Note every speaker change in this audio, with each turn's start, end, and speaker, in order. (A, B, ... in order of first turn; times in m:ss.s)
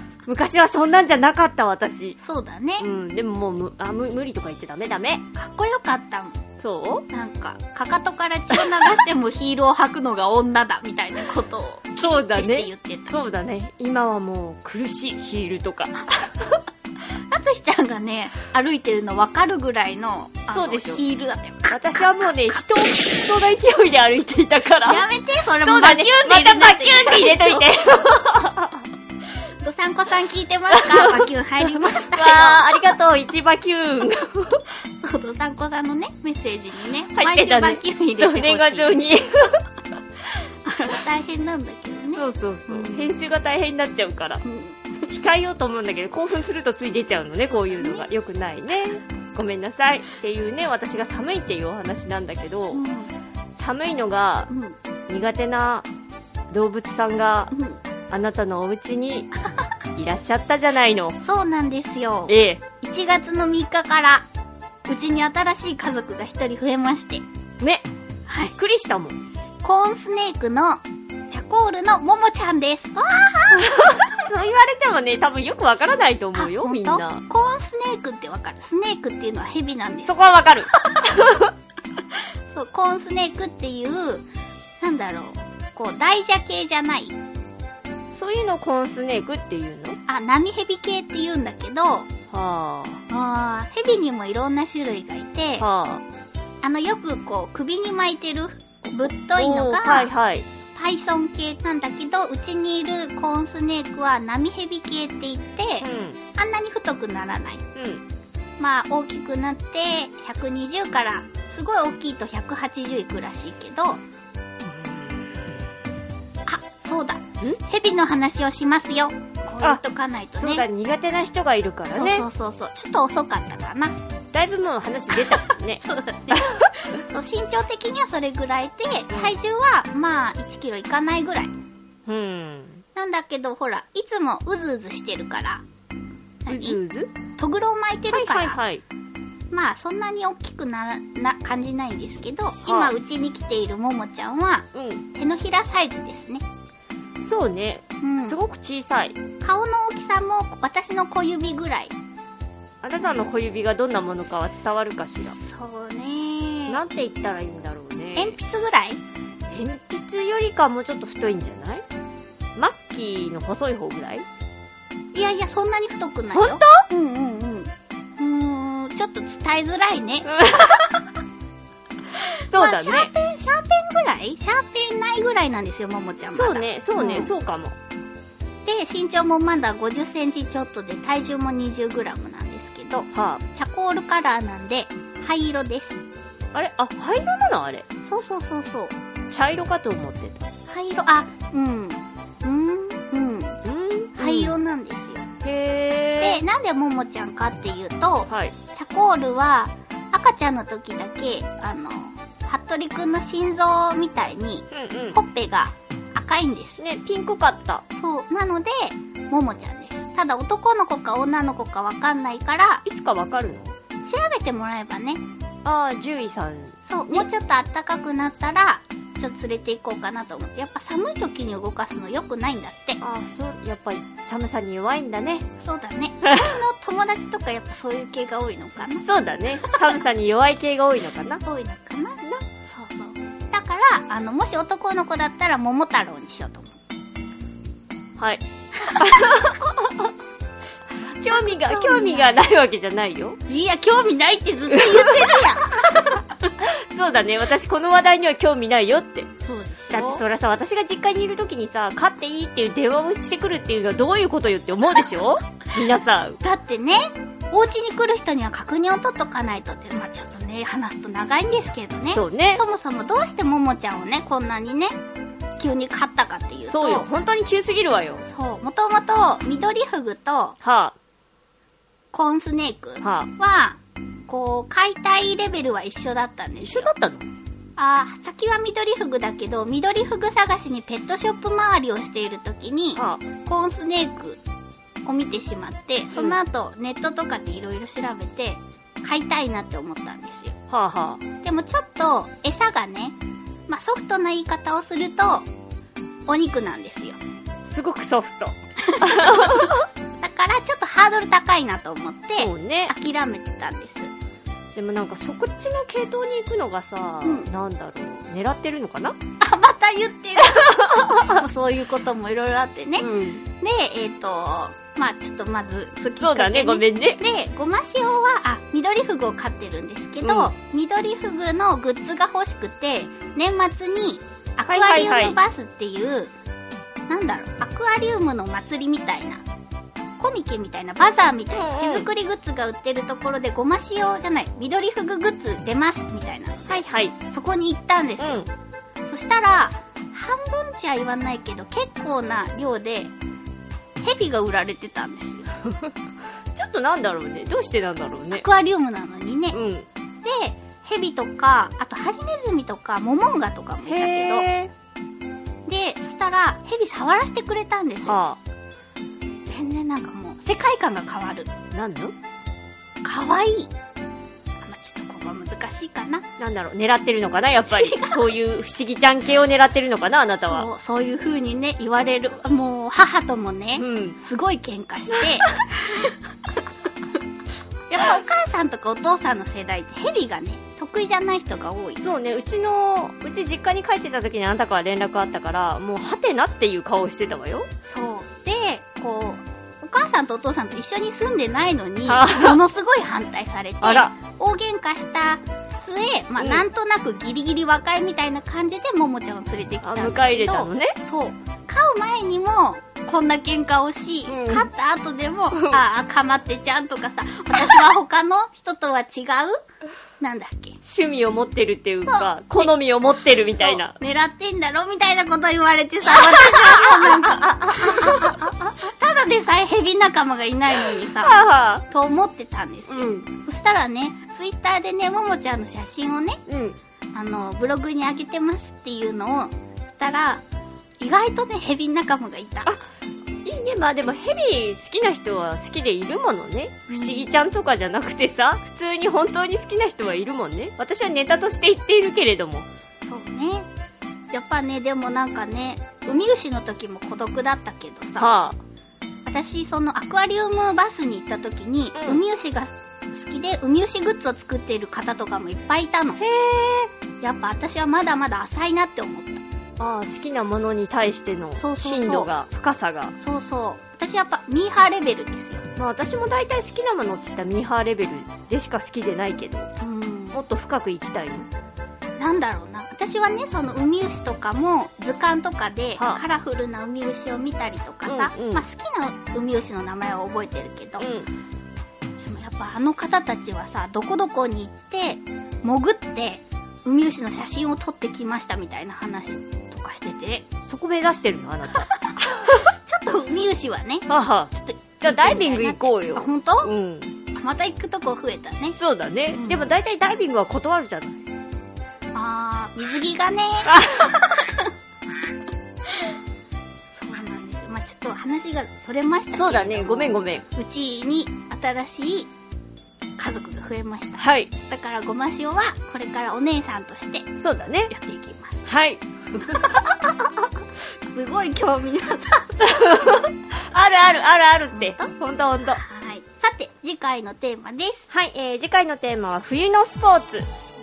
0:00.2-0:02.2 A
0:02.2-0:02.8 B
0:02.8-0:05.2 A
0:05.3-0:06.4 B
0:06.6-0:07.0 A
0:07.1-0:13.1 B
0:12.0-0:16.3 A
0:17.1-0:23.0 B
0:20.5-0:21.0 A
0:21.7-0:25.0 A
0:24.8-0:27.7 B
0:25.6-0:28.8 A
0:29.6-0:32.9 B
0:30.7-0:31.3 A
0:31.9-0:34.6 A
0:35.0-0:39.1 B
0:37.1-0:39.6 A
0:40.2-0:43.1 B
0:42.1-0:44.4 A
0:44.4-0:45.1 B
0:45.1-0:52.8 A
0:47.6-0:48.0 B
0:52.7-0:53.1 B
0:53.5-0:54.5 A
0:54.5-0:54.8 B
0:55.1-0:55.8 A
0:56.5-0:57.5 A
0:57.5-0:57.8 B
0:58.1-0:59.3 A
0:59.9-1:01.2 A
1:01.2-1:04.2 B
1:02.3-1:02.6 A
1:04.9-1:07.2 B
1:07.6-1:07.8 A
1:08.3-1:08.5 B
1:08.5-1:09.2 A
1:09.6-1:14.1 B
1:13.6-1:17.2 A
1:16.4-1:20.1 B
1:20.0-1:21.5 A
1:20.7-1:21.2 B
1:22.1-1:24.3 B
1:24.8-1:27.2 B
1:28.1-1:30.0 A
1:30.1-1:32.1 B
1:32.3-1:33.0 A
1:33.1-1:35.7 B
1:35.6-1:36.0 A
1:36.6-1:40.1 B
1:39.3-1:40.4 A
1:40.7-1:47.6 B
1:45.8-1:46.2 A
1:47.8-1:48.0 A
1:48.6-1:54.0 B
1:54.6-1:55.5 A
1:56.5-2:00.7 B
2:00.4-2:02.2 A
2:01.9-2:03.9 B
2:04.3-2:06.7 A
2:05.1-2:11.5 B
2:09.1-2:09.3 A
2:12.1-2:12.8 A
2:12.9-2:15.6 B
2:16.4-2:16.8 B
2:16.5-2:17.1 A
2:17.4-2:18.6 B
2:18.1-2:18.8 A
2:19.5-2:26.4 B
2:22.6-2:22.9 A
2:24.7-2:25.0 A
2:27.2-2:29.2 A
2:28.0-2:28.4 B
2:29.4-2:31.9 B
2:32.8-2:35.4 A
2:33.0-2:33.4 B
2:35.2-2:36.8 B
2:36.7-2:38.3 A
2:38.2-2:39.0 B
2:39.5-2:41.8 A
2:42.6-2:44.2 A
2:45.1-2:51.0 B
2:46.3-2:46.8 A
2:50.2-2:50.7 A
2:52.1-2:57.3 B
2:52.5-2:53.1 A
2:56.3-2:57.7 A
2:58.6-3:06.0 B
3:03.1-3:03.4 A
3:06.5-3:07.8 A
3:08.0-3:08.9 B
3:09.3-3:10.5 A
3:10.7-3:13.6 B
3:13.6-3:14.6 A
3:14.2-3:15.2 B
3:15.4-3:16.4 A
3:16.2-3:26.8 B
3:18.3-3:18.5 A
3:24.7-3:25.2 A
3:26.8-3:27.8 A
3:27.9-3:32.8 B
3:32.8-3:33.8 A
3:34.0-3:35.2 B
3:35.6-3:37.3 A
3:36.9-3:43.0 B
3:43.0-3:45.4 A
3:45.6-3:49.0 B
3:48.8-3:51.4 A
3:49.6-3:49.8 B
3:51.4-3:56.8 B
3:58.8-3:59.4 B
3:59.0-4:00.1 A
4:01.0-4:02.4 B
4:01.2-4:03.4 A
4:03.5-4:06.5 B
4:04.7-4:05.4 A
4:06.6-4:09.3 A
4:09.4-4:10.2 B
4:09.9-4:16.4 A
4:16.4-4:25.0 B
4:22.1-4:22.6 A
4:25.6-4:27.1 B
4:26.7-4:28.2 A
4:28.3-4:30.6 B
4:30.6-4:30.9 A
4:32.1-4:36.9 B
4:33.0-4:33.3 A
4:36.6-4:37.3 A
4:37.8-4:44.4 B
4:43.0-4:43.2 A
4:45.0-4:50.6 B
4:46.1-4:46.4 A
4:50.7-4:51.2 A
4:51.4-4:53.2 B
4:53.7-4:55.5 B
4:56.3-4:57.2 B
4:57.6-4:59.8 A
4:58.8-5:04.1 B
5:02.4-5:02.9 A
5:04.8-5:09.2 A
5:09.4-5:13.1 B
5:10.5-5:11.4 A
5:13.0-5:13.4 A
5:13.6-5:26.3 B
5:16.2-5:17.2 A
5:20.2-5:20.5 A
5:24.7-5:25.4 A
5:27.1-5:29.4 B
5:30.2-5:38.4 B
5:31.5-5:32.1 A
5:36.7-5:37.2 A
5:38.2-5:38.5 A
5:39.1-5:43.1 B
5:44.0-5:45.6 B
5:46.5-5:48.4 A
5:48.3-5:49.6 B
5:49.5-5:49.9 A
5:50.2-5:54.5 B
5:53.8-5:54.7 A
5:55.6-5:58.2 B
5:58.0-5:58.4 A
5:59.5-6:01.5 B
6:01.7-6:02.1 A
6:03.0-6:03.7 B
6:04.6-6:06.2 B
6:06.4-6:10.7 A
6:07.7-6:08.2 B
6:10.4-6:16.2 B
6:13.8-6:14.2 A
6:17.9-6:22.0 B
6:22.0-6:27.7 A
6:27.8-6:49.6 B
6:32.1-6:32.6 A
6:33.8-6:34.1 A
6:36.4-6:36.6 A
6:39.8-6:40.9 A
6:44.3-6:44.7 A
6:50.2-6:50.8 B
6:50.8-6:53.9 A
6:52.0-6:52.7 B
6:53.6-7:06.4 B
6:56.1-6:58.2 A
7:01.2-7:01.8 A
7:02.9-7:03.2 A
7:06.5-7:06.8 A
7:07.1-7:10.4 B
7:11.0-7:12.8 B
7:13.4-7:22.7 A
7:16.9-7:17.3 B
7:23.0-7:23.7 B
7:24.3-7:28.3 B
7:28.2-7:28.6 A
7:29.2-7:36.2 B
7:32.0-7:32.2 A
7:36.2-7:36.9 A
7:37.2-7:39.4 B
7:39.8-7:43.1 A
7:41.6-7:42.3 B
7:43.2-7:45.6 B
7:45.8-7:49.7 A
7:49.8-7:50.4 B
7:50.3-7:51.5 A
7:52.2-8:01.1 B
7:58.0-7:58.6 A
8:01.0-8:01.3 A
8:02.2-8:10.4 B
8:10.6-8:12.6 A
8:11.7-8:16.7 B
8:14.1-8:17.1 A
8:17.3-8:18.8 B
8:18.7-8:21.2 A
8:19.3-8:19.6 B
8:22.1-8:24.7 B
8:23.6-8:24.1 A
8:26.9-8:32.3 B
8:29.3-8:30.4 A
8:33.2-8:37.3 B
8:34.2-8:34.5 A
8:37.4-8:37.9 A
8:37.9-8:38.6 B
8:38.6-8:39.4 A
8:39.4-8:40.2 B
8:40.8-8:43.2 B
8:42.6-8:45.8 A
8:44.7-8:45.1 B
8:45.6-8:48.1 B
8:48.1-8:50.5 A